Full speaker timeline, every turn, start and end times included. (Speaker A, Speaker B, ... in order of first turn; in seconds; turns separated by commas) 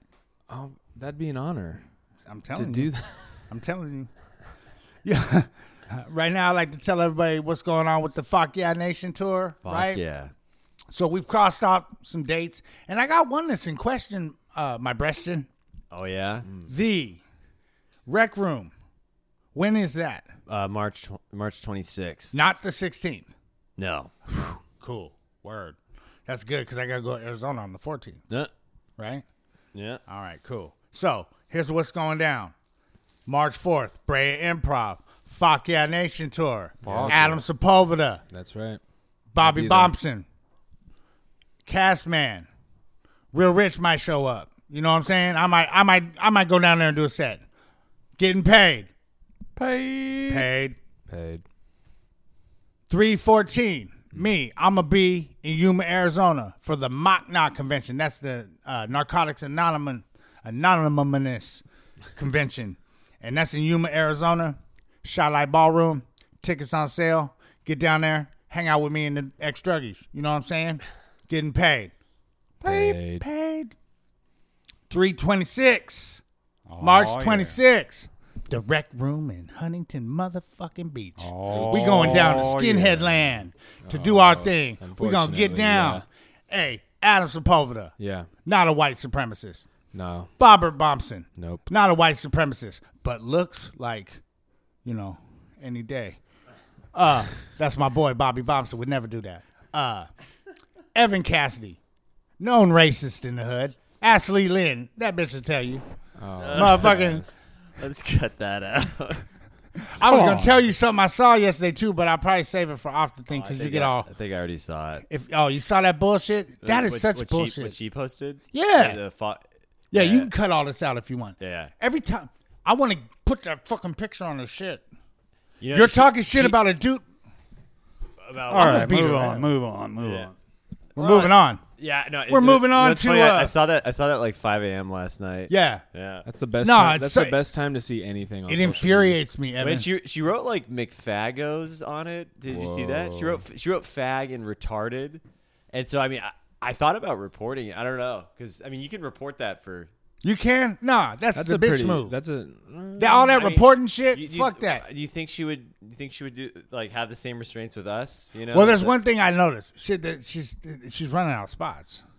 Speaker A: 0.5-1.8, Speaker B: 2.2-4.1, Speaker A: 2.5-3.5, Speaker B: 5.0-10.0, Speaker C: 9.7-10.3, Speaker B: 10.9-15.5, Speaker C: 15.9-16.5, Speaker B: 16.7-17.2, Speaker B: 18.1-18.7, Speaker B: 19.5-20.3, Speaker C: 20.5-22.4, Speaker B: 22.3-23.3, Speaker C: 23.8-24.1, Speaker B: 24.3-28.2, Speaker B: 29.0-29.2, Speaker C: 29.7-30.0, Speaker B: 30.1-32.5, Speaker B: 33.3-38.2, Speaker D: 36.8-37.4, Speaker A: 36.9-37.3, Speaker A: 38.3-38.8, Speaker B: 39.3-40.3, Speaker A: 39.4-39.9, Speaker B: 41.7-42.5, Speaker B: 43.3-47.4, Speaker B: 48.2-48.9, Speaker D: 49.6-50.5, Speaker B: 50.3-50.8, Speaker A: 51.1-51.4, Speaker B: 52.9-61.6, Speaker B: 62.2-71.9, Speaker B: 72.6-73.7, Speaker A: 72.6-73.3, Speaker B: 74.9-76.2, Speaker D: 76.7-77.6, Speaker B: 76.8-89.7, Speaker D: 81.2-83.2, Speaker A: 81.5-82.6, Speaker A: 83.8-86.0, Speaker A: 88.0-88.3, Speaker A: 89.9-90.3, Speaker B: 90.4-94.2, Speaker A: 91.4-91.7, Speaker B: 94.8-96.2, Speaker B: 96.9-100.1, Speaker B: 100.9-101.8, Speaker B: 102.4-105.8, Speaker A: 106.2-107.3, Speaker C: 106.4-107.2, Speaker B: 106.5-107.2, Speaker C: 107.8-109.3, Speaker B: 109.9-114.1, Speaker D: 110.0-110.6, Speaker C: 113.3-115.0, Speaker B: 115.1-117.8, Speaker C: 116.6-120.3, Speaker B: 118.5-119.0, Speaker B: 119.9-124.8, Speaker C: 121.4-121.7, Speaker C: 125.6-126.6, Speaker B: 125.7-127.0, Speaker C: 128.2-130.3, Speaker B: 128.5-129.5, Speaker D: 128.5-130.3, Speaker C: 130.9-136.3, Speaker B: 131.0-131.6, Speaker B: 132.3-133.6, Speaker B: 135.5-135.8, Speaker A: 136.2-139.2, Speaker B: 136.6-137.4, Speaker B: 138.5-139.9, Speaker C: 139.6-149.9, Speaker A: 142.5-143.4, Speaker B: 150.2-152.2, Speaker A: 151.3-153.3, Speaker B: 153.0-154.9, Speaker C: 153.3-159.0, Speaker B: 158.5-162.0